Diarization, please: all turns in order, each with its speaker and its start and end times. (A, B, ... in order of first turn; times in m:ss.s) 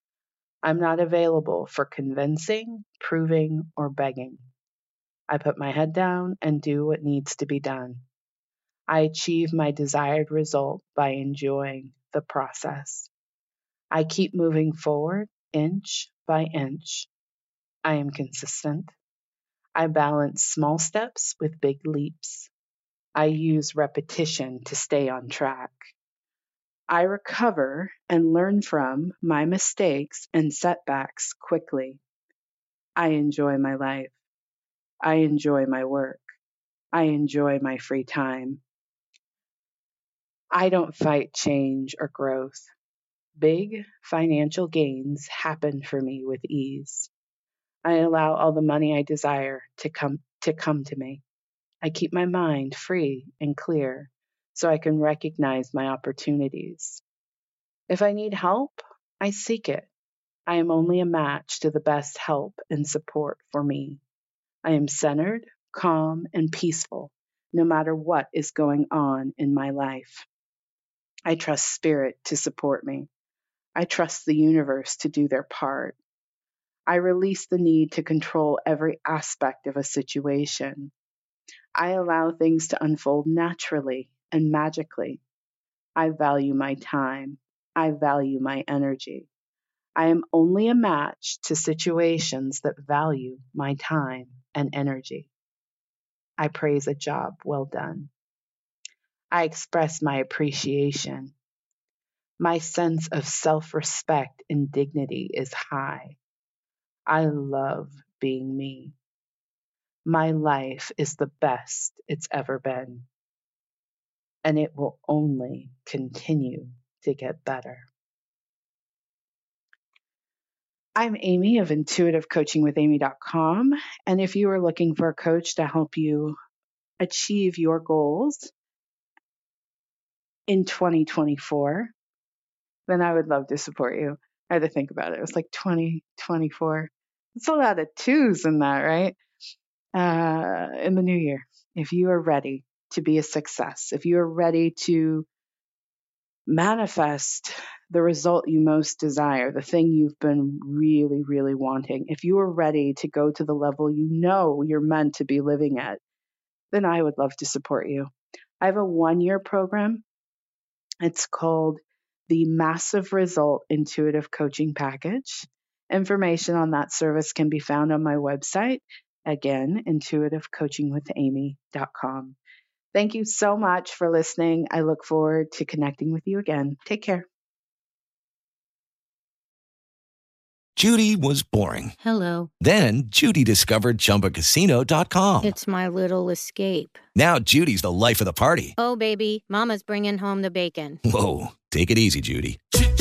0:00.6-0:04.4 A
0:05.3-0:08.0 A
0:08.9-0:13.1 A
0:13.9-0:17.1 A
0:17.8-0:18.9 A
0:19.7-0:22.5 A
0:23.1-0:25.8 A
0:26.9-0:32.0 A
0:33.0-0:34.1 A
0:35.0-0:36.2 A
0:36.9-0:38.6 A
0:40.5-0:42.7 A
0:43.4-0:47.1 A
0:47.8-0:51.2 A
0:51.8-0:57.0 A
0:57.9-0:59.9 A
1:00.5-1:04.0 A
1:04.6-1:10.3 A
1:11.2-1:13.1 A
1:13.7-1:16.0 A
1:16.9-1:20.9 A
1:21.7-1:25.2 A
1:26.0-1:29.3 A
1:30.0-1:35.3 A
1:36.4-1:38.1 A
1:39.3-1:41.3 A
1:42.4-1:46.2 A
1:47.1-1:49.0 A
1:50.0-1:53.1 A
1:54.4-1:57.9 A
2:00.9-2:06.4 A
2:07.0-2:08.5 A
2:10.5-2:11.9 A
2:12.9-2:19.2 A
2:19.9-2:25.3 A
2:26.5-2:36.0 A
2:36.7-2:38.1 A
2:38.6-2:40.0 A
2:41.0-2:52.4 A
2:52.9-2:57.3 A
3:00.8-3:02.0 B
3:02.0-3:02.5 C
3:02.6-3:05.5 B
3:05.4-3:07.0 C
3:07.1-3:08.8 B
3:08.8-3:11.0 C
3:11.0-3:12.8 B